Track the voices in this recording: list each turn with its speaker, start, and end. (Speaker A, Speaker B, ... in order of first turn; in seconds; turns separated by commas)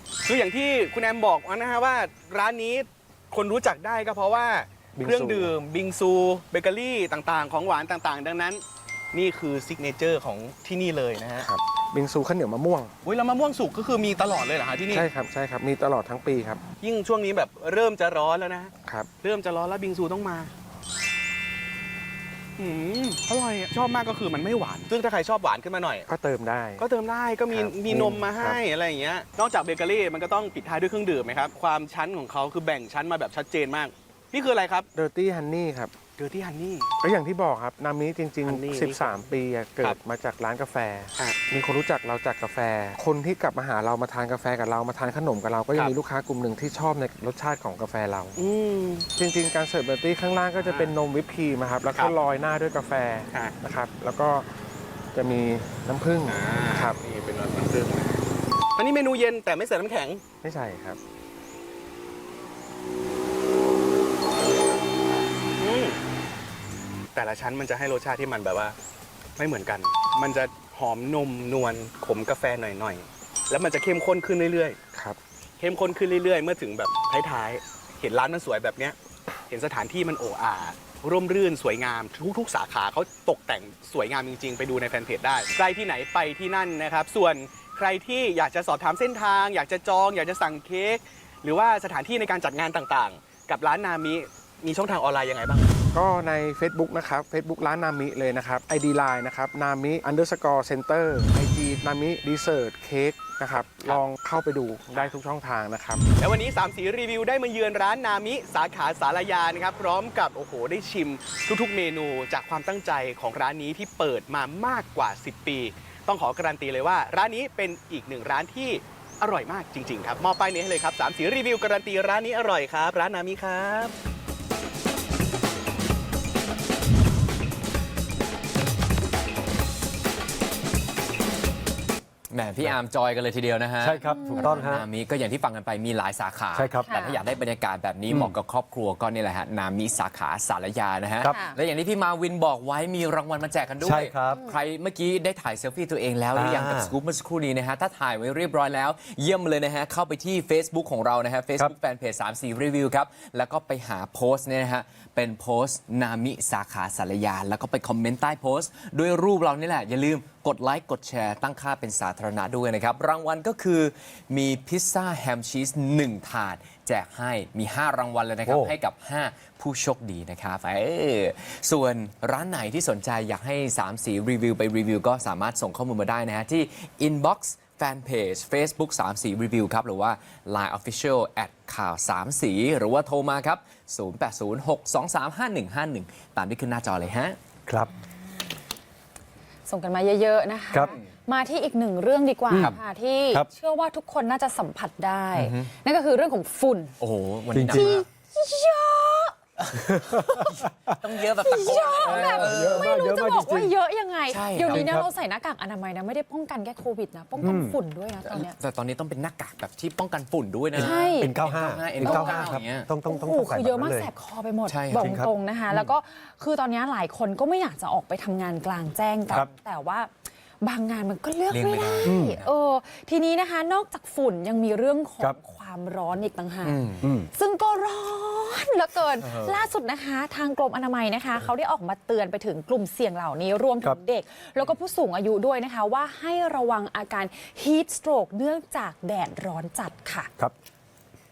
Speaker A: 0.2-8.6, Speaker B: 5.0-5.5, Speaker A: 9.1-11.5, Speaker B: 11.4-12.9, Speaker A: 13.0-15.1, Speaker B: 14.9-16.6, Speaker A: 16.8-20.5, Speaker B: 18.8-19.1, Speaker A: 22.6-26.1, Speaker B: 26.1-26.8, Speaker A: 26.8-34.9, Speaker B: 27.5-28.6, Speaker B: 34.9-35.9, Speaker A: 36.2-36.9, Speaker B: 37.0-48.4, Speaker A: 38.4-39.2, Speaker A: 45.7-46.0, Speaker A: 48.4-49.1, Speaker B: 49.1-54.5, Speaker A: 50.6-50.9, Speaker B: 55.1-57.0, Speaker A: 56.2-58.2, Speaker A: 58.8-60.2, Speaker B: 60.4-61.0, Speaker A: 65.6-66.0, Speaker A: 67.1-68.7, Speaker A: 69.4-74.8, Speaker B: 74.9-75.2, Speaker A: 75.6-79.0, Speaker A: 79.5-95.8, Speaker B: 95.9-106.0, Speaker A: 104.9-105.2, Speaker A: 106.2-123.9, Speaker C: 132.3-187.4, Speaker D: 133.8-134.8, Speaker E: 134.0-134.6, Speaker D: 136.5-136.9, Speaker E: 136.8-137.2, Speaker D: 138.1-138.3, Speaker E: 141.3-141.6, Speaker D: 143.8-144.4, Speaker D: 146.3-146.9, Speaker D: 168.4-168.7, Speaker E: 189.7-196.9, Speaker C: 195.3-195.7, Speaker C: 197.0-198.0, Speaker D: 197.5-198.0, Speaker E: 197.7-199.3, Speaker D: 199.8-200.9, Speaker C: 201.0-202.9, Speaker E: 201.4-208.5, Speaker D: 202.0-203.7, Speaker C: 204.3-205.0, Speaker D: 204.6-205.1, Speaker D: 207.4-207.8, Speaker C: 208.2-212.9, Speaker D: 210.7-214.1, Speaker E: 210.8-211.3, Speaker E: 212.0-212.5, Speaker E: 213.1-220.1, Speaker C: 214.7-215.2, Speaker D: 214.9-215.3, Speaker E: 220.6-226.8, Speaker C: 221.5-222.5, Speaker D: 222.0-222.4, Speaker C: 226.6-227.0, Speaker D: 227.0-227.3, Speaker E: 227.3-240.3, Speaker C: 229.2-229.5